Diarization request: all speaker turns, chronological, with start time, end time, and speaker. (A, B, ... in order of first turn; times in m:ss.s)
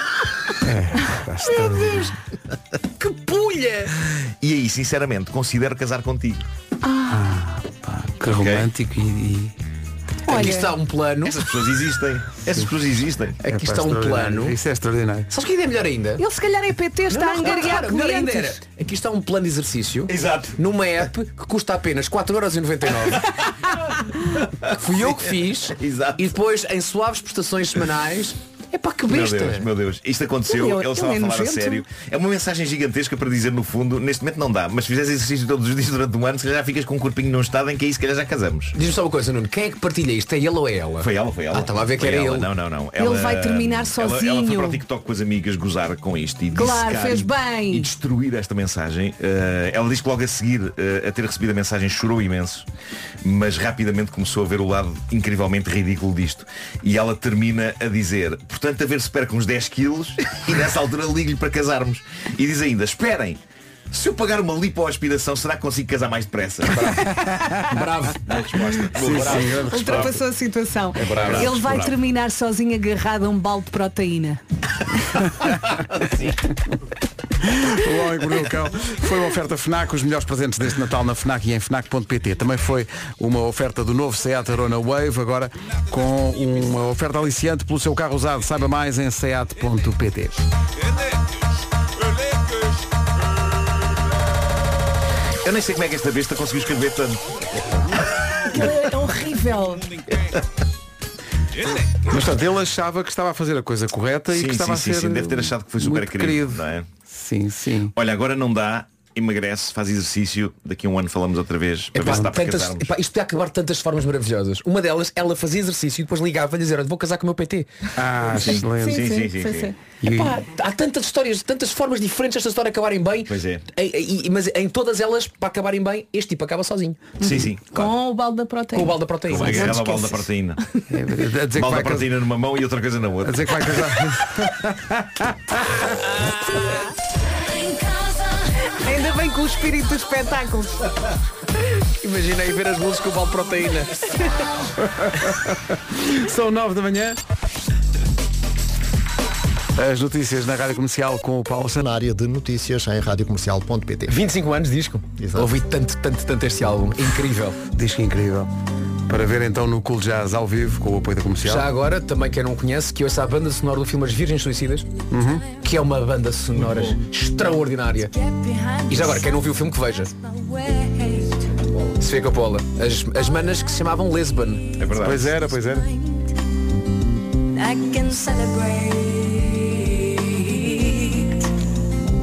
0:00.6-0:02.1 A
0:01.5-0:02.1 B
0:03.0-0:03.9 B
0:04.4-0:06.5 C
0:06.8-0:07.2 D
0:07.1-0:09.6 A
0:08.3-0:08.7 C
0:10.3-0:10.7 D
0:10.3-0:11.5 B
0:11.2-0:13.4 C
0:13.4-0:14.6 B
0:13.5-0:15.3 A
0:15.3-0:16.2 B
0:16.2-0:18.6 D
0:17.1-0:23.3 B
0:20.1-0:20.6 C
0:24.7-0:29.7 B
0:24.7-0:26.2 C
0:29.0-0:38.7 C
0:30.5-0:31.8 D
0:38.7-0:42.5 B
0:41.0-0:52.7 C
0:43.0-0:44.8 D
0:46.5-0:47.9 D
0:53.2-1:03.4 C
1:03.9-1:06.9 C
1:06.7-1:09.9 B
1:08.3-1:10.1 C
1:09.0-1:10.1 A
1:09.6-1:14.4 D
1:11.0-1:11.6 B
1:11.0-1:12.0 C
1:17.4-1:30.4 A
1:35.4-1:37.4 C
1:38.5-1:39.9 D
1:42.1-1:47.9 A
1:44.3-1:46.9 C
1:48.0-1:52.9 C
1:52.0-1:57.7 B
1:58.0-1:59.1 A
1:58.4-1:59.7 C
1:58.8-1:59.7 D
2:00.0-2:00.4 A
2:00.1-2:07.2 B
2:03.3-2:03.6 C
2:07.2-2:08.0 C
2:07.3-2:09.0 D
2:08.7-2:09.8 B
2:09.3-2:10.6 C
2:09.5-2:10.2 D
2:10.9-2:12.1 A
2:11.5-2:13.5 C
2:13.2-2:15.8 A
2:17.4-2:18.5 E
2:18.8-2:20.9 D
2:22.0-2:24.1 B
2:24.9-2:27.2 A
2:29.8-2:31.8 A
2:31.8-2:34.2 F
2:34.1-2:37.6 B
2:35.2-2:35.5 F
2:37.7-2:38.5 A
2:39.1-2:41.7 A
2:41.4-2:44.9 B
2:45.1-2:45.4 A
2:45.6-2:48.1 B
2:48.1-2:49.5 E
2:48.9-2:50.1 B
2:50.1-2:51.6 E
2:52.0-2:54.7 B
2:53.3-2:53.7 E
2:54.8-2:55.4 C
2:55.0-2:55.9 A
2:55.6-2:56.3 E
2:57.5-3:01.5 E